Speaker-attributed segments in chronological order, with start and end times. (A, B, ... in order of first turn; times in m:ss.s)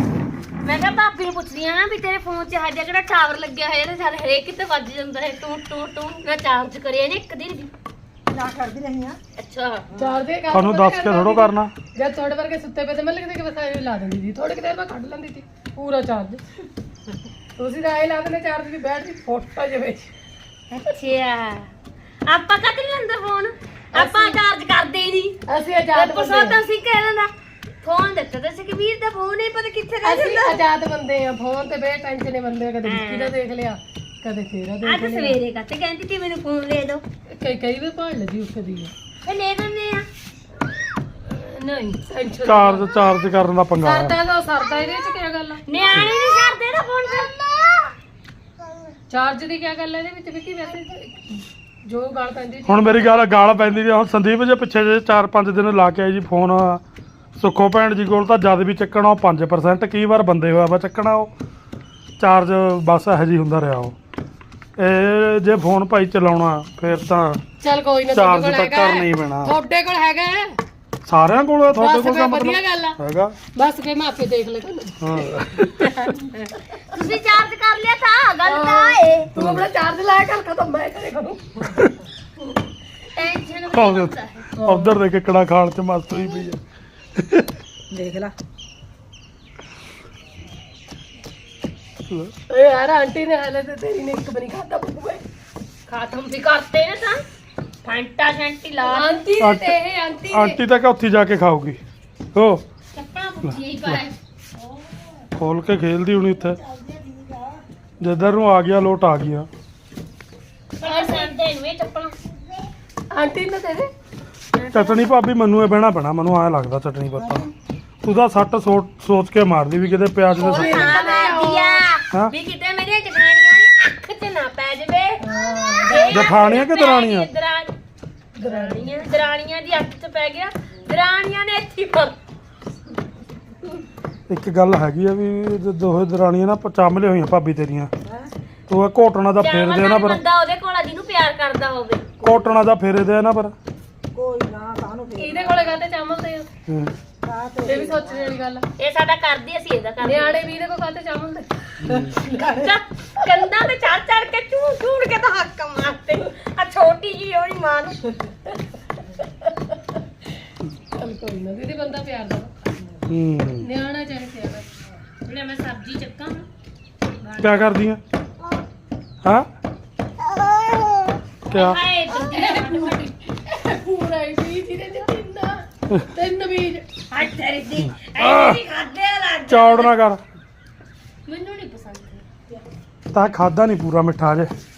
0:00.6-0:07.7 A
0:08.3-0:09.2 B
0:09.4-0:09.8 A
0:09.9-0:10.2 B
0:10.0-0:16.4 C
0:10.5-0:11.7 D
0:17.6-0:20.1 C
0:20.7-0:21.7 A
0:22.3-0:25.4 A
0:23.9-0:24.4 C
0:25.5-0:26.6 C
0:25.9-0:27.3 A
0:27.8-0:30.6 A
0:30.0-0:35.4 C
0:32.8-0:33.4 A
0:34.8-0:37.0 A
0:37.3-0:38.9 C
0:39.2-0:40.1 A
0:41.3-0:42.9 C
0:42.4-0:44.2 D
0:43.8-0:45.6 C
0:45.7-0:47.9 A
0:49.1-0:53.3 C
0:52.7-0:56.8 D
0:57.4-1:01.3 D
1:02.2-1:04.0 D
1:04.8-1:07.4 D
1:07.6-1:10.6 C
1:08.1-1:09.6 D
1:11.0-1:13.4 D
1:11.7-1:13.0 C
1:13.5-1:15.3 C
1:15.0-1:16.1 D
1:16.9-1:19.3 A
1:18.4-1:21.9 C
1:19.4-1:19.7 D
1:23.1-1:24.4 A
1:23.7-1:26.6 D
1:24.6-1:25.0 C
1:27.2-1:27.5 D
1:27.9-1:28.4 B
1:32.5-1:35.2 C
1:35.9-1:37.2 A
1:37.8-1:39.2 A
1:38.8-1:40.6 C
1:39.4-1:39.8 D
1:40.3-1:41.8 D
1:42.3-1:42.6 D
1:42.9-1:44.2 A
1:43.4-1:44.0 D
1:45.4-1:46.6 D
1:46.4-1:47.6 B
1:48.0-1:49.5 D
1:50.8-1:52.2 A
1:50.8-1:51.3 C
1:53.1-1:53.9 C
1:54.5-1:55.1 A
1:54.7-1:57.5 D
1:57.2-1:57.5 B
1:58.0-2:01.0 D
2:00.4-2:05.2 A
2:00.4-2:01.9 C
2:05.2-2:06.4 C
2:05.8-2:07.7 A
2:06.1-2:07.3 D
2:08.4-2:09.0 C
2:08.4-2:12.2 A
2:14.3-2:17.9 D
2:18.0-2:18.3 B
2:18.7-2:20.2 D
2:19.4-2:22.0 A
2:22.2-2:22.6 B
2:22.2-2:23.5 D
2:24.1-2:25.8 B
2:25.2-2:26.5 C
2:26.7-2:26.9 D
2:27.2-2:28.4 B
2:27.6-2:28.6 C
2:28.8-2:30.4 A
2:30.0-2:31.5 C
2:31.8-2:32.2 D
2:31.9-2:32.7 B
2:32.4-2:38.0 A
2:39.2-2:39.8 C
2:40.9-2:42.5 C
2:43.1-2:43.7 D
2:43.6-2:44.7 C
2:45.2-2:46.5 A
2:47.2-2:47.8 A
2:47.4-2:48.0 D
2:51.5-2:53.1 A
2:51.5-2:51.8 D
2:52.1-2:56.8 C
2:57.1-2:59.9 A
2:57.8-2:58.6 D
2:59.5-3:00.2 D
3:01.3-3:02.2 A
3:03.1-3:04.5 D